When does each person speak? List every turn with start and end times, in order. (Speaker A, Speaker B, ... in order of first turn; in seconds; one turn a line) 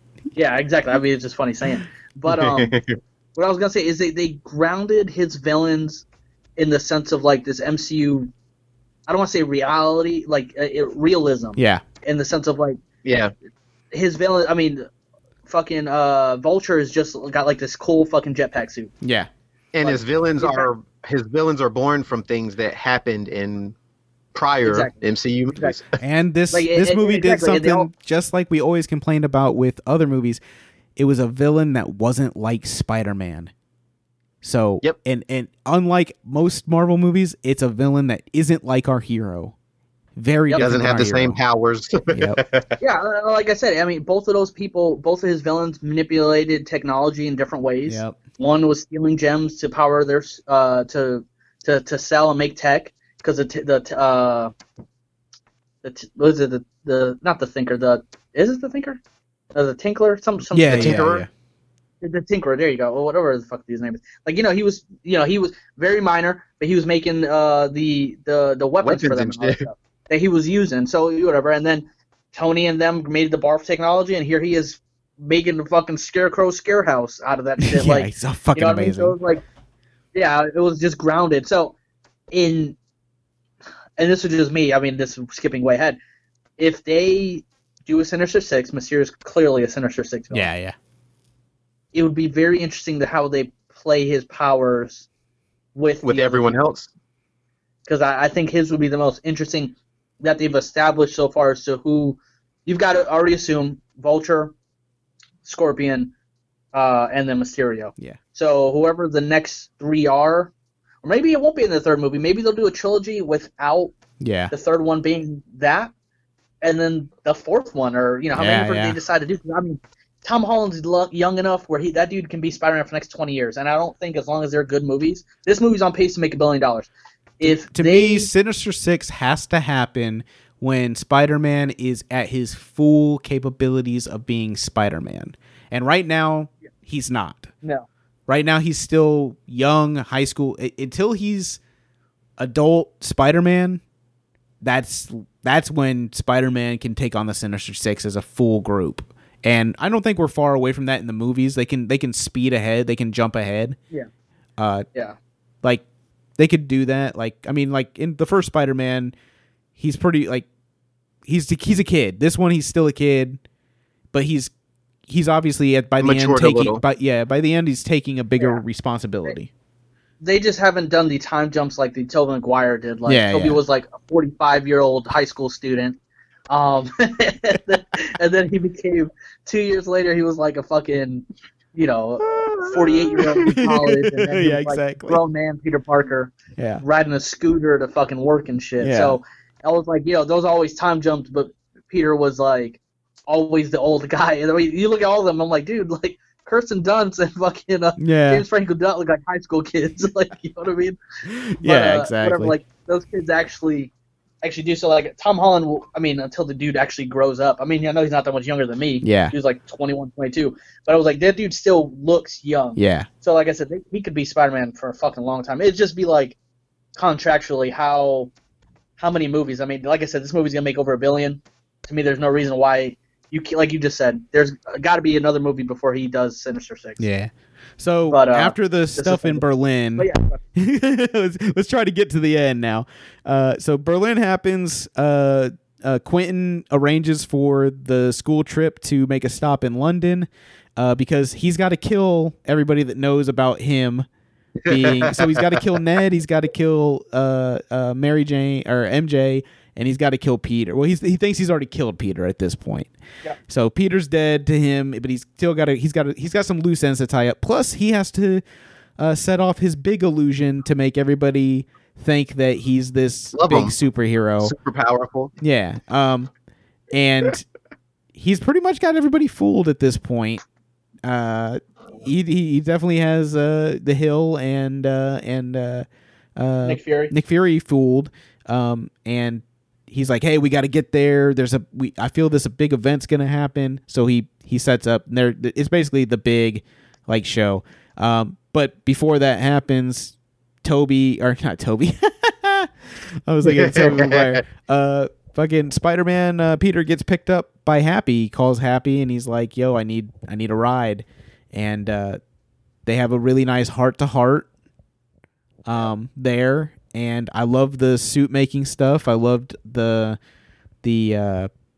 Speaker A: 0.4-2.8
Speaker B: 2.3-3.0
Speaker A: 3.4-6.0
Speaker A: 6.6-8.3
Speaker A: 9.1-12.8
Speaker C: 11.6-11.8
Speaker B: 13.0-13.3
Speaker A: 13.9-14.9
Speaker A: 15.5-18.9
Speaker C: 19.0-19.3
Speaker B: 19.7-23.8
Speaker A: 19.8-20.7
Speaker B: 24.3-26.0
Speaker A: 24.6-24.9
Speaker C: 26.0-30.4
Speaker A: 26.5-27.9
Speaker C: 31.0-33.5
Speaker C: 34.4-39.5
Speaker C: 40.2-41.4
Speaker B: 40.6-42.8
Speaker C: 42.1-42.4
Speaker A: 42.8-54.5
Speaker C: 47.9-48.2
Speaker A: 55.8-59.0
Speaker A: 59.5-61.0
Speaker C: 60.5-61.3
Speaker B: 60.7-61.3
Speaker A: 62.0-79.4
Speaker B: 68.8-69.7
Speaker C: 77.6-79.2
Speaker A: 80.1-81.8
Speaker A: 82.3-82.8
Speaker A: 84.0-86.0
Speaker A: 86.6-90.5
Speaker C: 90.3-90.8
Speaker A: 91.9-95.1
Speaker A: 95.8-96.6
Speaker B: 96.0-96.9
Speaker A: 97.9-104.5
Speaker A: 105.4-106.1
Speaker A: 106.7-110.5
Speaker A: 111.0-113.9
Speaker C: 114.2-114.5
Speaker A: 114.5-115.9
Speaker A: 116.6-128.3
Speaker C: 118.4-119.0
Speaker C: 127.4-137.5
Speaker C: 138.3-141.6
Speaker C: 142.4-143.8
Speaker C: 144.6-153.8
Speaker C: 154.6-154.8
Speaker C: 156.4-159.1
Speaker C: 159.8-160.5
Speaker C: 161.3-163.4
Speaker C: 164.1-164.5
Speaker C: 165.1-169.5
Speaker B: 166.0-166.8
Speaker A: 170.2-176.0
Speaker C: 173.1-173.6
Speaker A: 176.5-201.0
Speaker C: 183.2-185.2
Speaker C: 186.6-186.8
Speaker C: 188.8-189.2
Speaker C: 198.0-198.4
Speaker C: 201.3-202.6
Speaker A: 201.6-216.4
Speaker C: 209.0-209.3
Speaker C: 212.8-213.1
Speaker A: 217.0-218.3
Speaker A: 219.0-227.1
Speaker C: 227.0-244.1
Speaker A: 228.1-229.4
Speaker A: 230.0-230.4
Speaker B: 244.7-245.6
Speaker C: 244.7-252.9
Speaker C: 253.5-258.4
Speaker C: 259.0-264.5
Speaker B: 263.3-263.8
Speaker B: 264.4-265.3
Speaker C: 265.4-266.3
Speaker C: 266.9-267.4
Speaker C: 268.1-270.4
Speaker C: 271.1-292.7
Speaker A: 276.6-277.1
Speaker C: 293.3-302.2
Speaker B: 293.4-294.4
Speaker C: 302.9-304.5
Speaker C: 305.7-310.2
Speaker C: 310.8-311.5